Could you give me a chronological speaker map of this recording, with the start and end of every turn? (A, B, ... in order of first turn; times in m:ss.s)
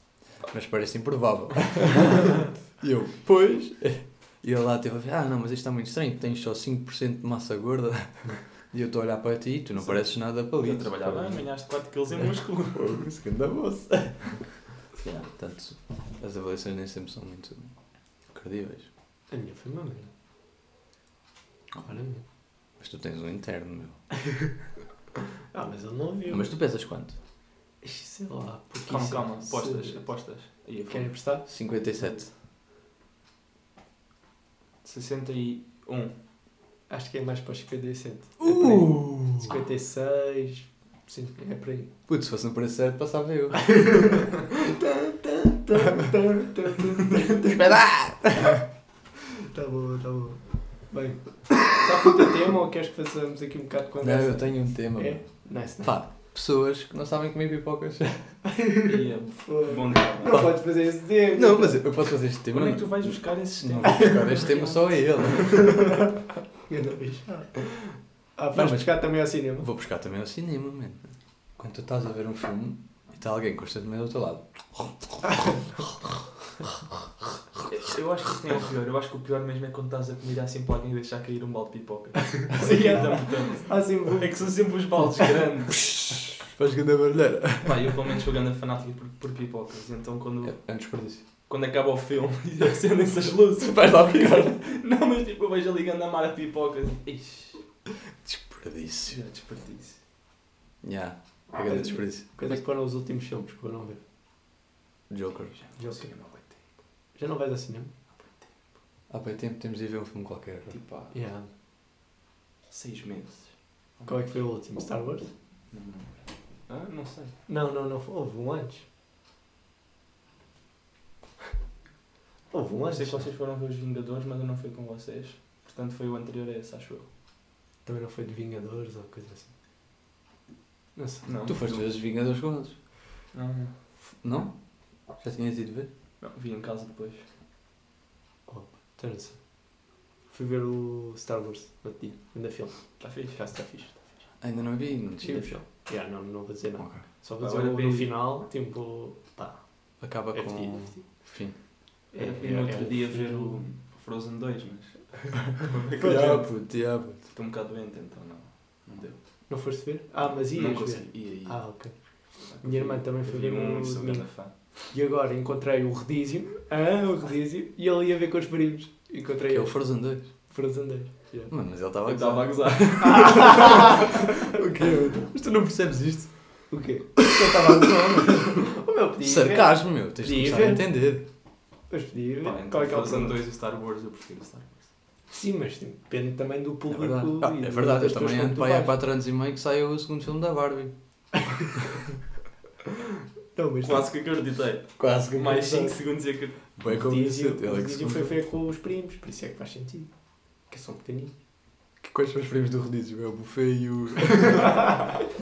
0:00.3-0:11.5 A
0:09.9-0:13.0 B
0:12.2-0:14.4 A
0:15.0-0:17.7 A
0:18.3-0:18.9 A
0:19.3-0:20.1 C
0:21.8-0:22.2 C
0:22.8-0:24.0 A
0:25.5-0:26.5 C
0:26.3-0:27.2 A
0:27.8-0:30.1 C
0:28.9-0:31.1 B
0:30.9-0:31.5 C
0:31.5-0:32.3 A
0:34.8-0:36.1 B
0:36.9-0:41.9 C
0:38.4-0:39.6 A
0:42.1-0:44.1 A
0:43.6-0:47.8 C
0:47.4-0:48.6 A
0:49.5-0:56.0 C
0:54.0-0:58.4 A
0:58.6-1:01.8 C
0:58.8-1:00.4 B
1:00.3-1:05.9 A
1:02.5-1:05.7 B
1:05.5-1:06.1 C
1:06.7-1:09.7 C
1:08.5-1:15.2 A
1:17.7-1:26.0 B
1:22.6-1:24.7 C
1:26.5-1:28.0 A
1:27.6-1:37.6 B
1:30.4-1:31.2 A
1:33.6-1:34.6 A
1:38.2-1:39.2 A
1:39.1-1:40.0 B
1:40.8-1:42.5 A
1:41.6-1:44.0 C
1:45.1-1:45.6 A
1:45.5-1:46.6 B
1:45.8-1:46.1 C
1:47.1-1:47.9 C
1:48.1-1:48.6 B
1:49.1-1:50.8 A
1:50.7-1:51.1 B
1:51.1-1:51.5 C
1:52.7-1:54.4 B
1:54.1-1:55.3 C
1:55.7-1:56.1 B
1:56.6-1:57.4 B
1:57.5-1:58.8 C
2:02.5-2:03.3 C
2:02.9-2:07.1 B
2:07.8-2:09.5 C
2:11.0-2:11.3 C
2:11.2-2:11.9 B
2:11.5-2:12.8 A
2:13.3-2:13.7 B
2:14.2-2:15.9 A
2:16.2-2:17.3 B
2:18.5-2:19.4 C
2:20.3-2:24.3 C
2:23.0-2:23.4 B
2:24.4-2:25.6 A
2:25.2-2:31.2 C
2:26.8-2:27.0 A
2:27.4-2:28.2 B
2:30.0-2:31.6 A
2:32.1-2:33.6 C
2:32.2-2:39.2 B
2:36.0-2:36.5 C
2:36.0-2:37.2 A
2:39.5-2:42.0 C
2:40.2-2:41.8 B
2:42.4-2:44.7 B
2:42.6-2:44.3 C
2:44.9-2:51.5 C
2:49.5-2:50.3 A
2:51.5-2:56.7 A
2:52.0-2:53.9 B
2:53.0-2:54.2 C
2:56.7-3:00.9 C
2:59.2-3:01.2 A
3:01.9-3:03.4 C
3:02.4-3:04.9 B
3:05.3-3:09.0 C
3:06.9-3:10.9 A
3:13.5-3:14.1 C
3:13.8-3:16.6 B
3:15.0-3:16.0 A
3:16.8-3:18.4 A
3:16.9-3:20.1 C
3:20.7-3:21.4 C
3:22.0-3:24.9 A